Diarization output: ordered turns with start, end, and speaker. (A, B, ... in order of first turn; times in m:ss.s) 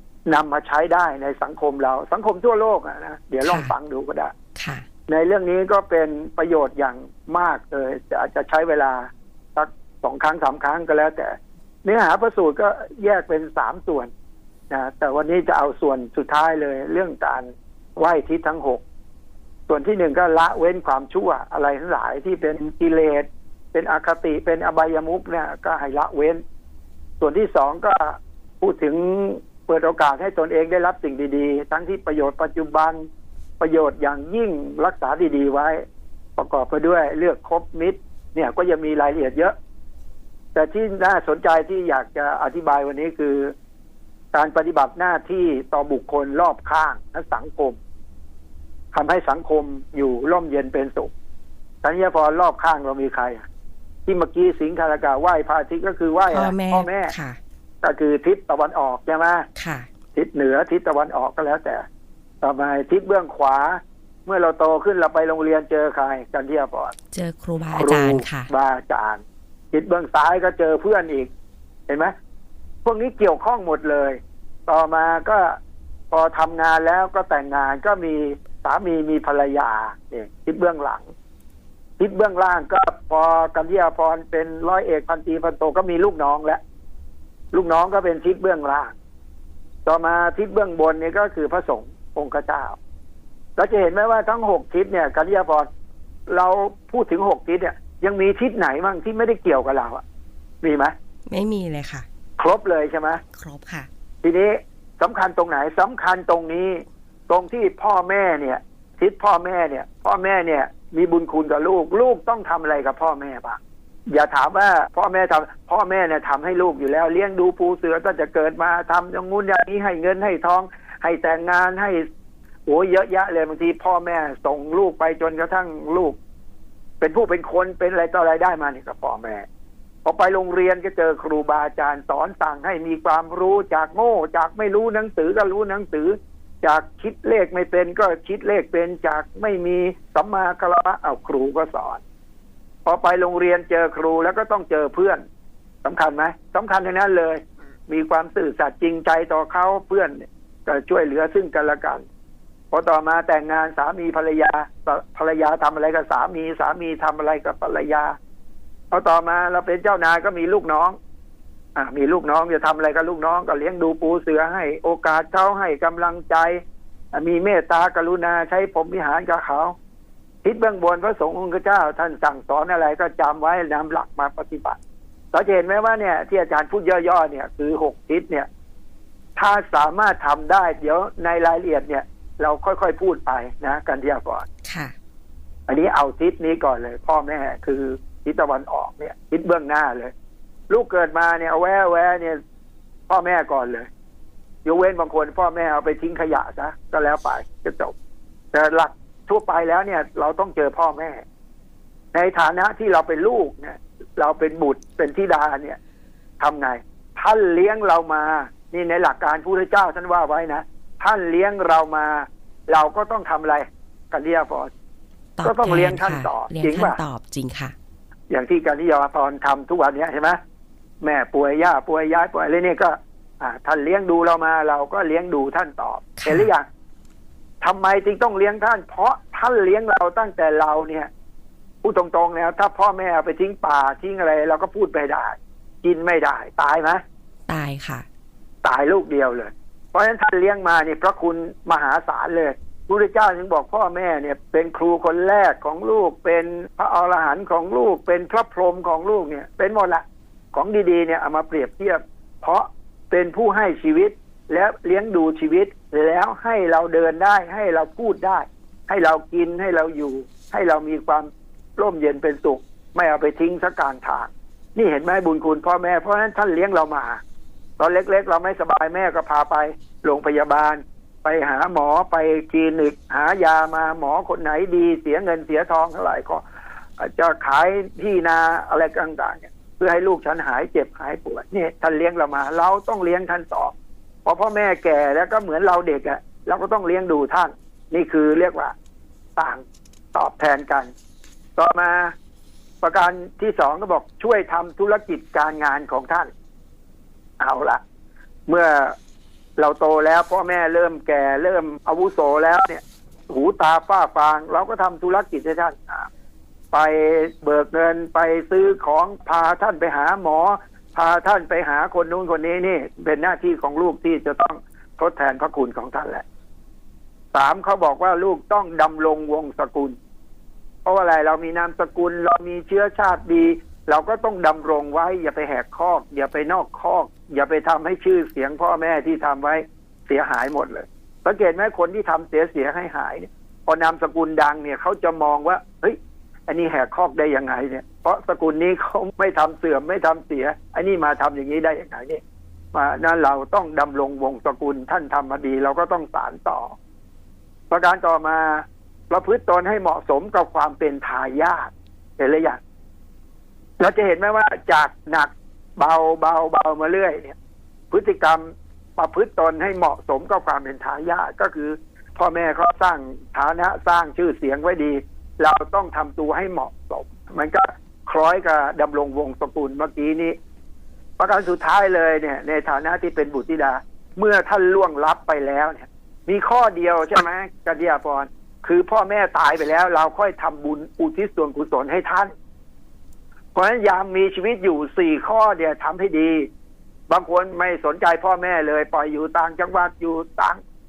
0:00.2-0:04.3 A
0:03.4-0:03.7 B
0:04.6-0:04.8 B
0:05.1-0:14.1 A
0:14.7-0:18.8 A
0:19.7-0:26.4 A
0:27.2-0:33.0 A
0:33.6-0:35.8 A
0:36.4-0:39.5 A
0:40.5-0:43.5 A
0:44.3-0:47.8 A
0:48.9-0:51.1 A
0:51.8-0:53.4 A
0:54.0-0:57.1 A
0:56.3-0:57.4 B
0:57.8-0:59.5 A
0:59.6-0:59.9 B
1:00.1-1:01.8 A
1:02.4-1:06.9 A
1:07.1-1:08.5 B
1:07.7-1:11.3 A
1:11.9-1:12.1 A
1:12.8-1:15.6 A
1:16.1-1:21.1 A
1:22.0-1:26.6 A
1:27.5-1:28.9 A
1:29.8-1:32.8 A
1:33.6-1:35.7 A
1:36.3-1:40.0 A
1:40.6-1:40.9 A
1:41.3-1:42.0 B
1:42.4-1:43.2 A
1:43.3-1:43.9 B
1:44.2-2:02.0 A
2:02.6-2:06.2 A
2:07.0-2:09.4 A
2:10.0-2:22.0 A
2:22.8-2:25.2 A
2:25.8-2:32.0 A
2:32.7-2:38.2 A
2:38.9-2:41.0 A
2:41.7-2:46.6 A
2:47.1-2:49.7 A
2:50.4-2:54.8 A
2:55.3-2:58.5 A
2:59.4-3:04.5 A
3:04.6-3:04.9 B
3:05.7-3:10.1 A
3:10.7-3:12.4 A
3:13.1-3:13.9 A
3:14.6-3:17.9 A
3:18.5-3:21.2 A
3:22.1-3:25.8 A
3:26.4-3:34.7 A
3:35.4-3:37.7 B
3:35.4-3:37.0 A
3:38.3-3:40.4 A
3:41.0-3:46.6 A
3:46.2-3:46.5 B
3:47.6-3:51.1 A
3:51.8-3:57.0 A
3:57.5-3:58.0 B
3:58.6-4:27.2 A
4:27.8-4:36.4 A
4:37.0-4:43.7 A
4:44.2-4:48.7 A
4:49.4-4:50.9 A
4:51.6-4:52.1 A
4:52.8-4:56.3 A
4:57.4-4:57.8 A
4:58.5-4:59.0 A
4:59.6-5:06.1 A
5:06.7-5:16.2 A
5:17.3-5:20.0 A
5:20.8-5:36.0 A
5:36.5-5:42.2 A
5:42.7-5:46.7 A
5:47.7-5:52.6 A
5:53.8-5:57.4 A
5:57.9-6:10.4 A
6:11.2-6:22.3 A
6:23.5-6:26.5 A
6:27.1-6:30.6 A